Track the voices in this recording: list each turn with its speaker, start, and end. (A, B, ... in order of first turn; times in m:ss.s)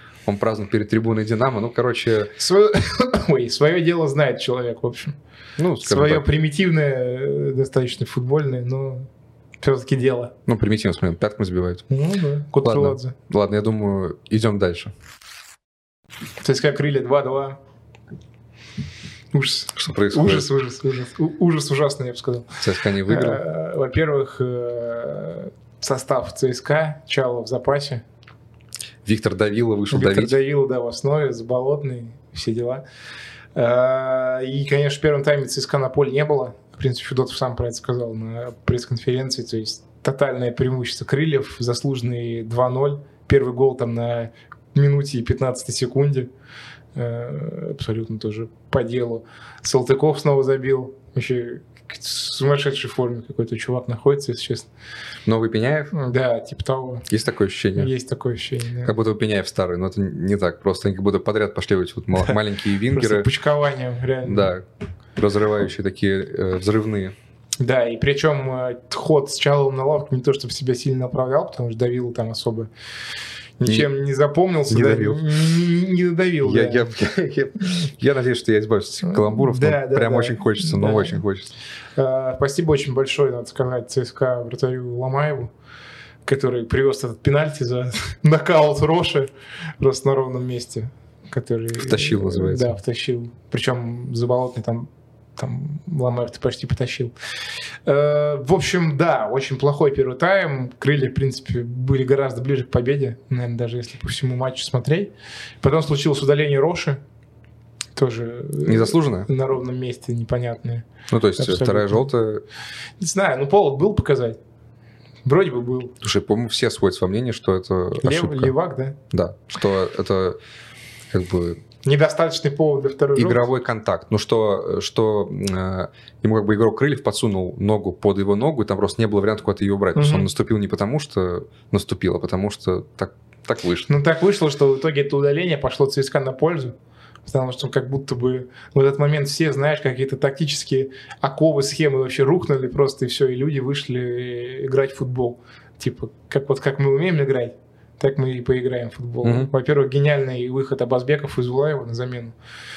0:00.3-0:02.3 A
0:02.4-0:05.2 B
0:05.6-0:06.2 A
0:05.8-0:09.1 B
0:09.6-0:10.3 B
0:10.5-0:11.8 A
0:11.9-0:13.1 B
0:12.6-0:14.9 A
0:16.4-0:17.6 B
0:19.3-0:22.5 B
0:19.7-0:20.5 A
0:22.6-0:23.4 A
0:23.1-0:28.0 B
0:29.0-0:30.4 A
0:29.9-0:32.8 B
0:33.6-0:46.3 B
0:47.0-0:54.7 B
0:55.3-0:55.9 A
0:55.9-0:57.1 B
0:57.1-0:57.9 A
0:57.8-0:58.9 B
0:58.8-1:03.3 A
1:02.9-1:04.5 B
1:04.2-1:04.6 A
1:05.2-1:07.2 A
1:07.6-1:12.7 B
1:13.6-1:16.9 B
1:14.7-1:15.4 A
1:16.4-1:21.5 A
1:19.0-1:21.2 B
1:22.0-1:25.5 B
1:26.3-1:37.1 B
1:31.8-1:32.8 A
1:37.9-1:47.0 B
1:48.0-1:52.1 B
1:48.6-1:49.3 A
1:51.1-1:52.4 A
1:53.0-1:54.4 B
1:55.2-1:56.0 B
1:56.0-1:58.5 A
1:58.0-1:59.0 B
1:59.1-2:00.4 A
2:01.1-2:01.6 A
2:01.8-2:03.5 B
2:03.2-2:13.9 A
2:10.0-2:10.3 B
2:13.9-2:16.8 B
2:17.3-2:32.4 B
2:29.2-2:29.5 A